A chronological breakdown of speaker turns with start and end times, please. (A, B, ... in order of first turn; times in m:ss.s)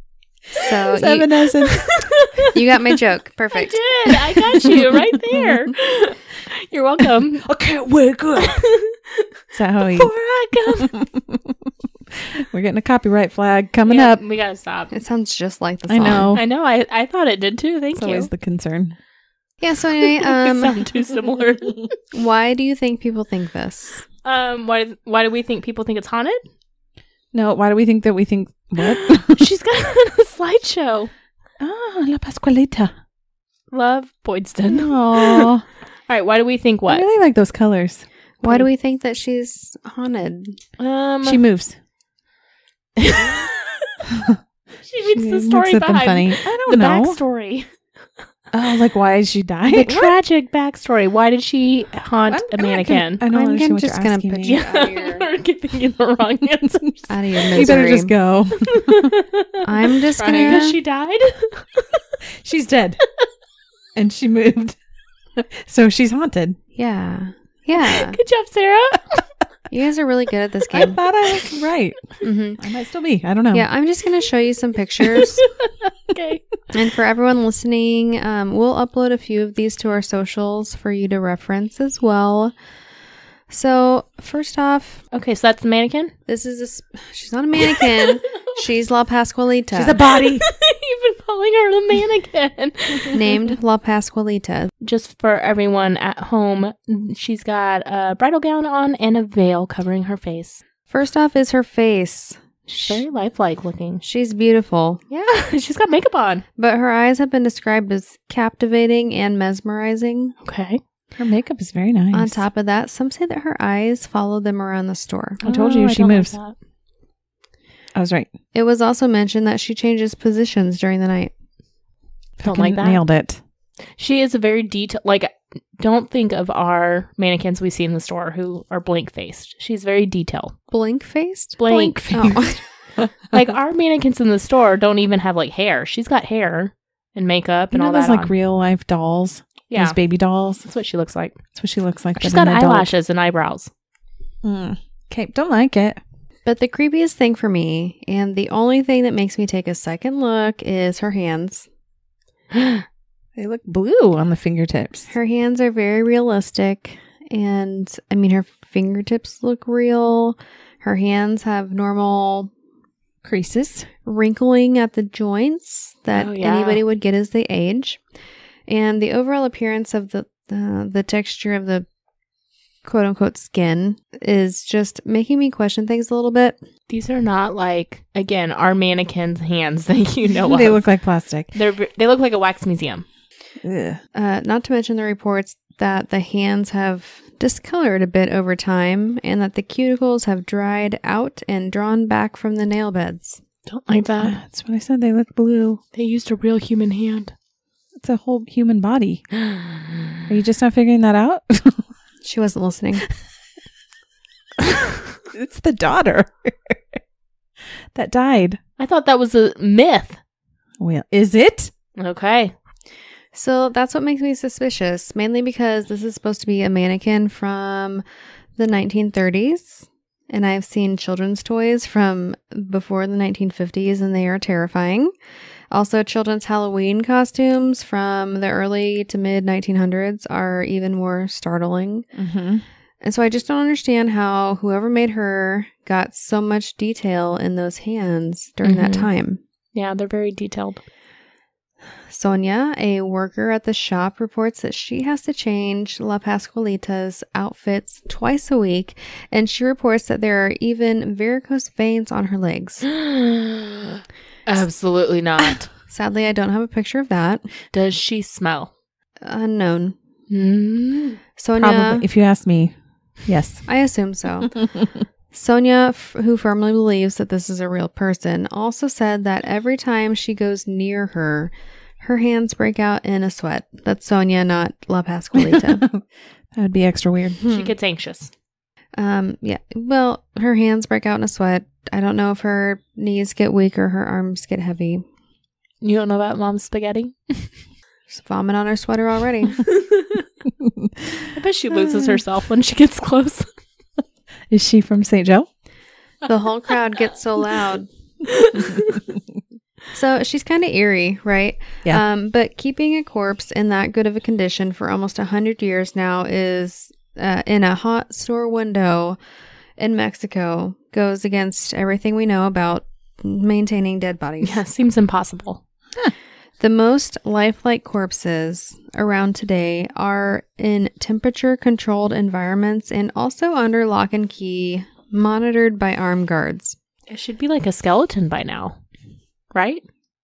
0:00.5-0:01.3 A
0:01.0-0:01.8 B
0:01.4-0:02.5 C
0:02.5-0:03.8 A
0:03.5-0:07.6 C
0:07.4-0:08.6 B
0:08.3-0:09.2 C
0:09.5-0:10.1 B
0:09.8-0:10.9 C
0:11.0-0:11.5 B
0:12.3-0:14.2 B
0:13.9-0:14.9 C
0:14.9-0:16.4 A
0:15.9-0:16.4 B
0:16.3-0:18.3 C
0:18.0-0:19.0 B
0:19.6-0:20.9 A
0:20.0-0:22.0 C
0:22.1-0:24.0 A
0:24.2-0:26.4 C
0:27.3-0:29.4 B
0:28.8-0:31.1 C
0:31.6-0:32.9 B
0:33.7-0:35.5 C
0:34.7-0:35.6 B
0:36.1-0:37.0 C
0:36.9-0:38.0 B
0:38.4-0:40.6 A
0:40.8-0:41.4 C
0:41.2-0:41.8 B
0:43.0-0:43.9 C
0:44.8-0:47.7 C
0:45.1-0:47.2 B
0:48.5-0:50.1 B
0:49.7-0:53.2 C
0:52.3-0:54.6 B
0:53.3-0:55.3 A
0:54.4-0:57.8 C
0:57.1-0:58.1 A
0:57.5-0:59.1 B
0:58.6-1:02.0 C
0:59.6-1:00.8 A
1:02.4-1:03.0 B
1:03.9-1:04.8 B
1:05.4-1:06.6 B
1:06.7-1:08.2 A
1:07.7-1:09.2 C
1:09.7-1:11.0 A
1:10.7-1:13.7 B
1:12.2-1:12.6 A
1:13.5-1:15.4 A
1:15.1-1:16.6 C
1:16.7-1:22.5 A
1:23.5-1:25.0 A
1:25.1-1:26.1 C
1:26.3-1:30.0 A
1:27.7-1:28.0 C
1:29.7-1:30.4 B
1:30.1-1:33.4 C
1:33.1-1:34.7 A
1:34.8-1:40.6 C
1:40.9-1:43.0 A
1:42.7-1:44.0 C
1:44.0-1:45.2 A
1:45.1-1:46.4 C
1:46.6-1:50.3 A
1:50.4-1:50.8 C
1:51.2-1:52.4 B
1:52.1-1:55.4 A
1:55.4-1:56.5 C
1:55.4-1:56.3 B
1:58.0-1:58.3 B
1:58.5-2:01.3 A
2:02.4-2:03.4 B
2:02.4-2:03.0 C
2:04.0-2:10.5 C
2:10.7-2:12.6 A
2:11.6-2:12.3 C
2:11.7-2:12.5 B
2:13.2-2:18.3 C
2:17.7-2:20.6 B
2:19.7-2:20.0 C
2:20.6-2:21.4 C
2:21.6-2:22.9 B
2:22.2-2:23.7 C
2:24.4-2:26.0 B
2:26.4-2:31.7 A
2:33.4-2:35.1 B
2:35.1-2:42.5 A
2:43.2-2:43.9 B
2:44.0-2:48.0 A
2:46.1-2:46.8 C
2:48.7-2:51.8 A
2:52.8-2:56.6 A
2:56.9-3:00.8 C
3:00.4-3:01.5 B
3:01.5-3:03.0 C
3:03.6-3:04.0 B
3:04.1-3:13.4 A
3:13.7-3:14.4 C
3:14.2-3:15.8 B
3:15.9-3:17.3 C
3:18.0-3:19.2 B
3:19.5-3:20.2 C
3:20.3-3:21.8 B
3:22.2-3:23.0 A
3:25.3-3:26.8 B
3:27.9-3:28.6 B
3:28.8-3:30.2 C
3:30.8-3:31.7 B
3:32.0-3:32.5 C
3:33.3-3:38.0 A
3:38.6-3:45.1 A
3:45.7-3:52.1 A
3:52.2-3:52.6 B
3:53.0-3:59.4 A
3:58.6-3:59.1 C
3:59.7-4:00.8 C
4:02.1-4:12.9 A
4:13.0-4:15.7 C
4:15.9-4:17.5 A
4:17.7-4:18.7 C
4:19.2-4:19.9 A
4:20.3-4:21.2 C
4:21.4-4:22.0 A
4:21.6-4:22.7 B
4:23.2-4:23.7 B
4:23.6-4:24.6 A
4:25.3-4:35.9 A
4:35.5-4:36.0 B
4:36.5-4:37.4 B
4:37.4-4:37.7 A
4:37.5-4:38.3 C
4:39.0-4:45.0 A
4:45.8-4:47.5 C
4:48.1-4:49.6 A
4:49.6-4:50.2 C
4:50.6-4:50.9 B
4:51.3-4:53.5 C
4:54.5-4:55.5 B
4:56.2-4:57.9 A
4:58.3-4:59.0 C
4:59.9-5:09.2 A
5:09.8-5:14.6 A
5:14.4-5:15.6 C
5:16.6-5:26.8 A
5:27.1-5:28.8 C
5:29.5-5:29.8 C